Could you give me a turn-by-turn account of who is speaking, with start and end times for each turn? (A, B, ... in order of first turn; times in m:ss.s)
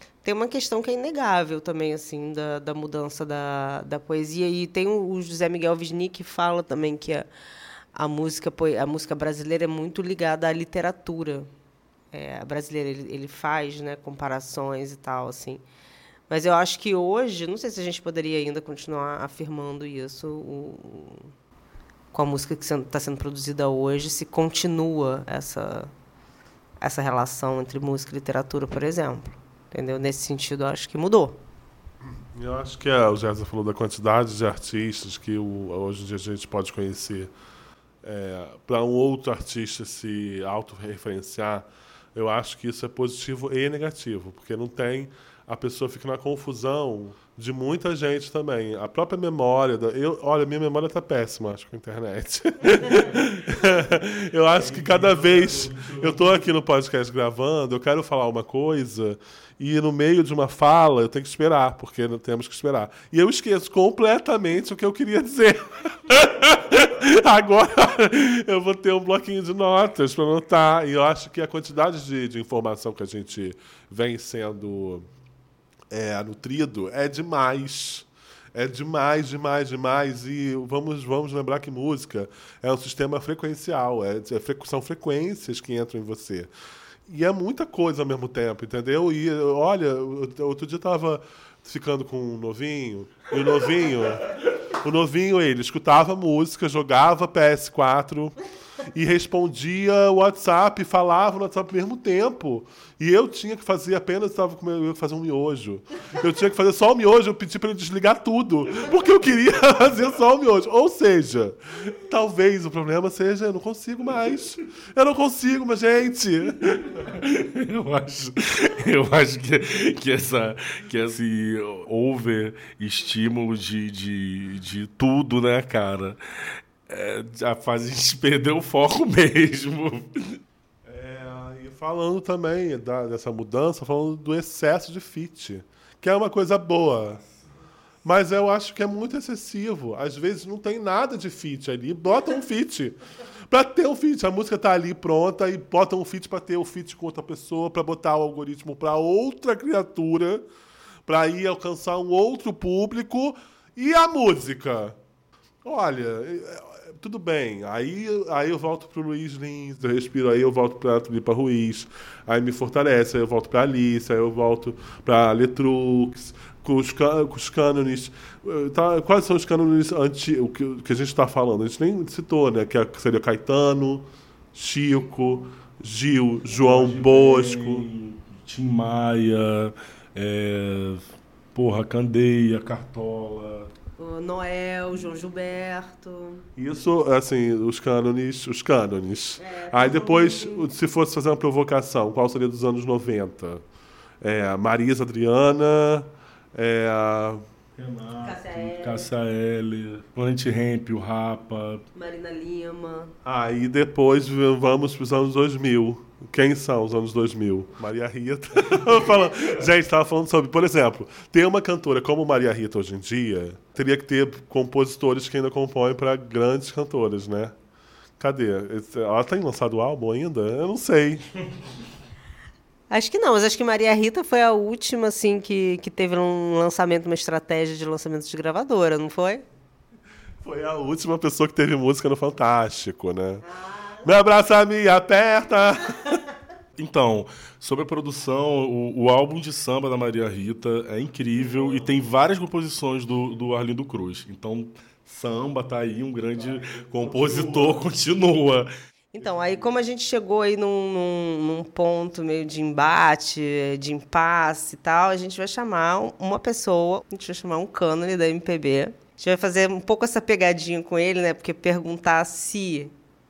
0:00.2-0:07.3 A
0:07.9-0:11.5 A
0:12.1-0:15.6 A
0:16.3-0:21.3 A
0:22.1-0:25.9 A
0:26.8-0:31.4 A
0:32.3-0:37.3 B
0:38.0-1:15.1 B
0:54.6-0:56.4 C
1:15.9-1:26.5 B
1:27.1-1:34.3 B
1:34.8-1:38.4 B
1:38.9-1:56.6 B
1:56.8-2:06.2 C
2:06.9-2:10.4 C
2:10.8-2:17.2 B
2:18.0-2:23.0 B
2:23.5-2:30.5 B
2:31.1-2:35.0 B
2:35.6-2:57.8 B
2:56.5-3:01.0 C
3:01.5-3:03.7 C
3:04.0-3:06.4 A
3:06.6-3:13.6 B
3:09.4-3:10.7 A
3:14.2-3:17.4 B
3:17.8-3:21.8 C
3:18.2-3:19.1 A
3:21.9-3:23.1 A
3:23.2-3:37.5 B
3:38.2-3:41.2 B
3:42.9-3:49.4 A
3:50.4-3:53.4 B
3:53.4-3:54.0 A
3:54.0-3:56.1 B
3:56.8-4:08.7 C
4:01.5-4:02.0 B
4:06.3-4:07.9 B
4:09.1-4:22.9 A
4:09.2-4:09.6 B